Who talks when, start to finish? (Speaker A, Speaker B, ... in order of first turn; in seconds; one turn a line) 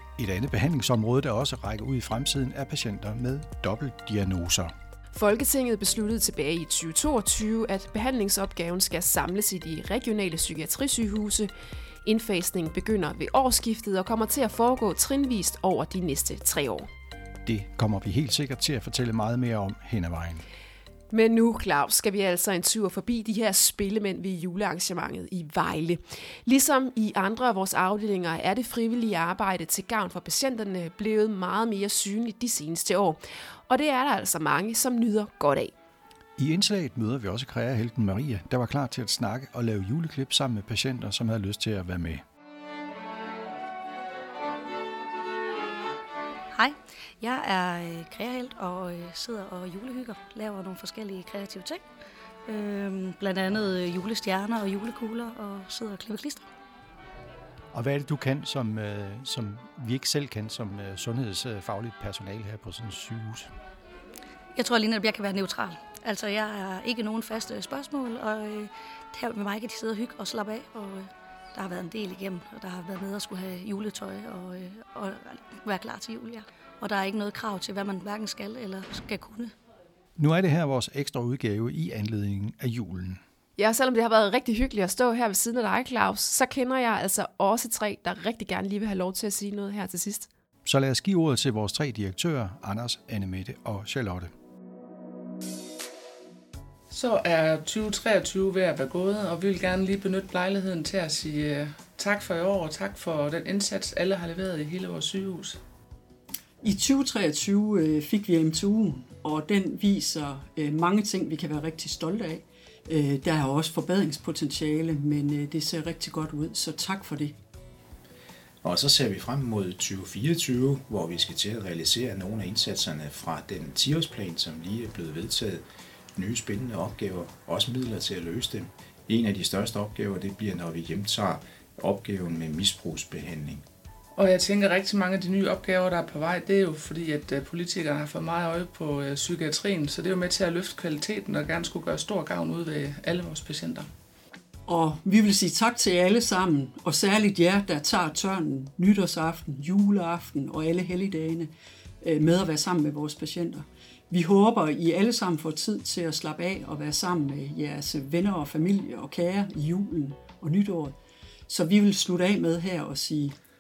Speaker A: 0.2-4.7
Speaker B: 5.1-11.5
Speaker B: 12.0-16.9
Speaker A: 17.4-20.4
Speaker B: 21.1-35.7
Speaker A: 36.4-42.2
Speaker C: 46.5-51.8
Speaker C: 52.5-56.5
Speaker A: 57.7-63.5
Speaker C: 64.5-79.5
Speaker A: 80.2-83.2
Speaker B: 83.6-90.3
Speaker A: 90.6-94.3
Speaker D: 96.9-105.6
Speaker E: 106.6-117.4
Speaker F: 118.6-125.6
Speaker F: 126.1-133.6
Speaker D: 134.2-143.9
Speaker E: 144.7-160.9
Speaker E: 161.5-163.3